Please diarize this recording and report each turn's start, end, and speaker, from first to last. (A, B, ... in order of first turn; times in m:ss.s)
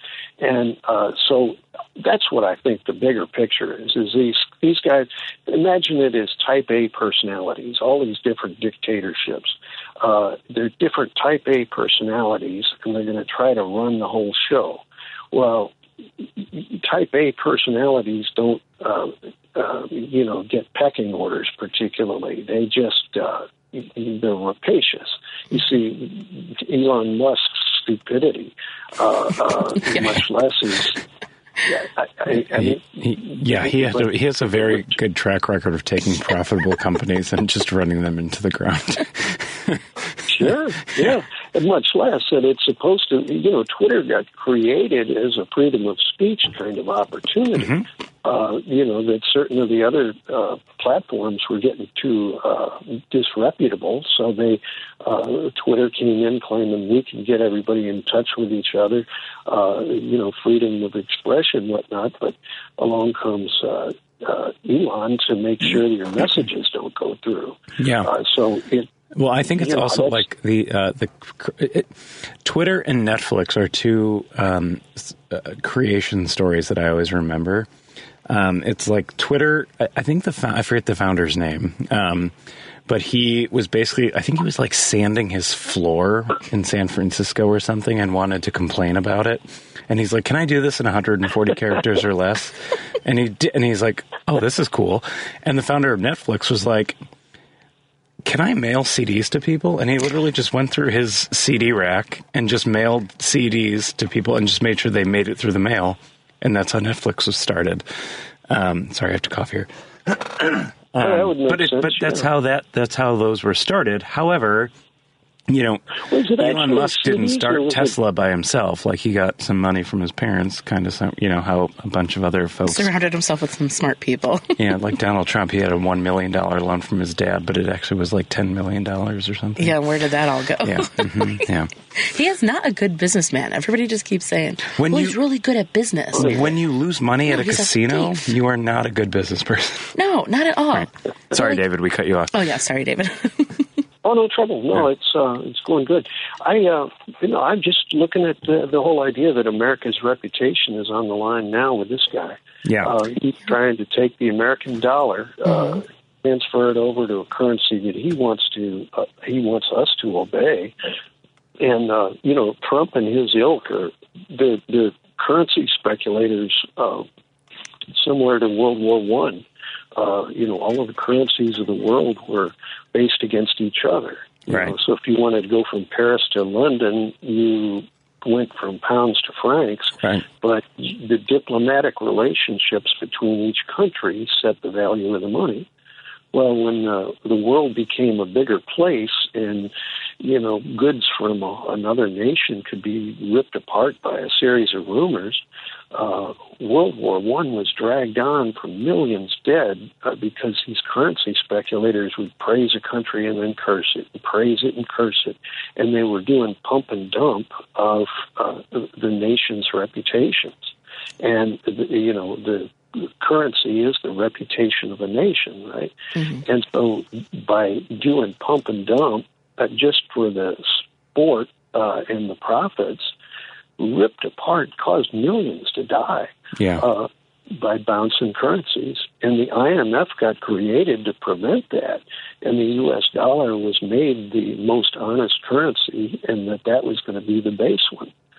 0:00.4-0:31.0 A
0:31.6-0:34.9 A
0:32.3-0:41.1 B
0:40.3-1:08.9 A
0:47.6-0:47.9 B
1:07.8-1:08.1 B
1:09.1-1:17.7 B
1:09.5-1:10.2 A
1:18.3-1:22.3 B
1:22.9-1:37.0 B
1:38.2-1:54.7 B
1:51.0-1:52.3 A
1:55.5-2:02.9 B
1:56.1-1:58.0 A
2:02.7-2:04.6 C
2:04.6-2:09.8 B
2:09.6-2:16.5 C
2:10.6-2:11.7 B
2:14.8-2:15.2 B
2:16.2-2:20.0 B
2:16.2-2:16.5 A
2:17.3-2:18.2 C
2:20.0-2:21.6 C
2:20.8-2:22.4 B
2:22.3-2:23.7 C
2:24.0-2:40.7 A
2:32.6-2:33.0 B
2:41.6-2:47.1 A
2:47.9-3:05.7 A
2:54.5-2:54.8 B
3:06.3-3:43.1 A
3:43.8-3:58.1 A
3:46.6-3:46.9 B